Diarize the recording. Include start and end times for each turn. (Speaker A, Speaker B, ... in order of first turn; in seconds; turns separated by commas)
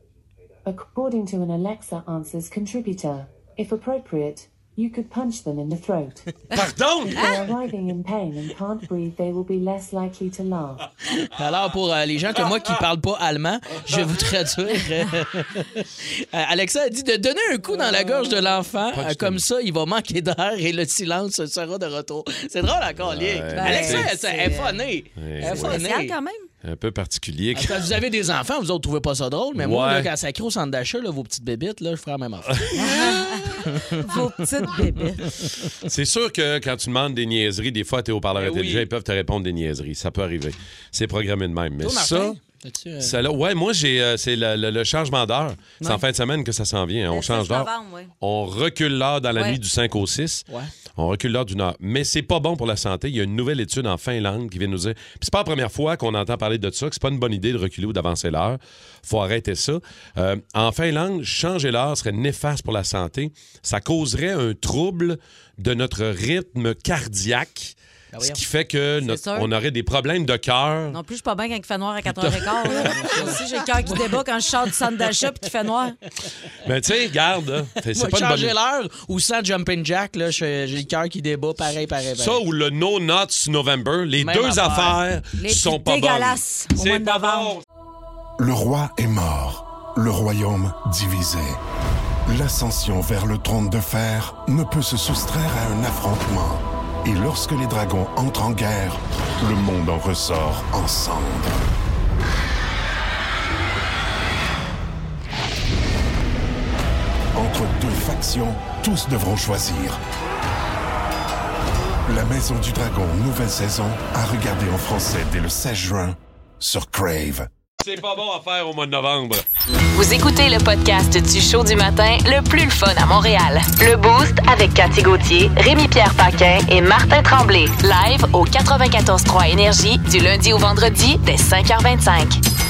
Speaker A: 0.6-6.3, Speaker B: 6.5-7.2, Speaker A: 7.1-10.9, Speaker C: 11.0-26.1, Speaker B: 18.9-19.4, Speaker B: 23.0-24.1, Speaker D: 23.5-24.8, Speaker B: 25.1-25.9, Speaker D: 25.4-26.5, Speaker B: 26.6-27.9, Speaker C: 27.5-34.0, Speaker B: 29.6-30.1, Speaker B: 32.6-33.0, Speaker D: 32.8-35.3, Speaker B: 35.8-42.4, Speaker C: 38.3-38.9, Speaker C: 41.8-43.2, Speaker B: 43.0-71.0, Speaker D: 47.1-48.1, Speaker C: 68.1-68.4, Speaker D: 69.0-69.5, Speaker D: 70.9-76.0, Speaker B: 72.0-73.3, Speaker C: 72.7-74.2, Speaker B: 76.6-78.5, Speaker C: 77.9-82.4, Speaker B: 82.2-87.6, Speaker C: 84.2-85.0, Speaker D: 85.4-87.6, Speaker E: 88.4-91.6, Speaker E: 92.2-101.6, Speaker E: 107.3-110.0, Speaker E: 112.0-117.5, Speaker B: 117.8-119.4, Speaker F: 119.9-132.4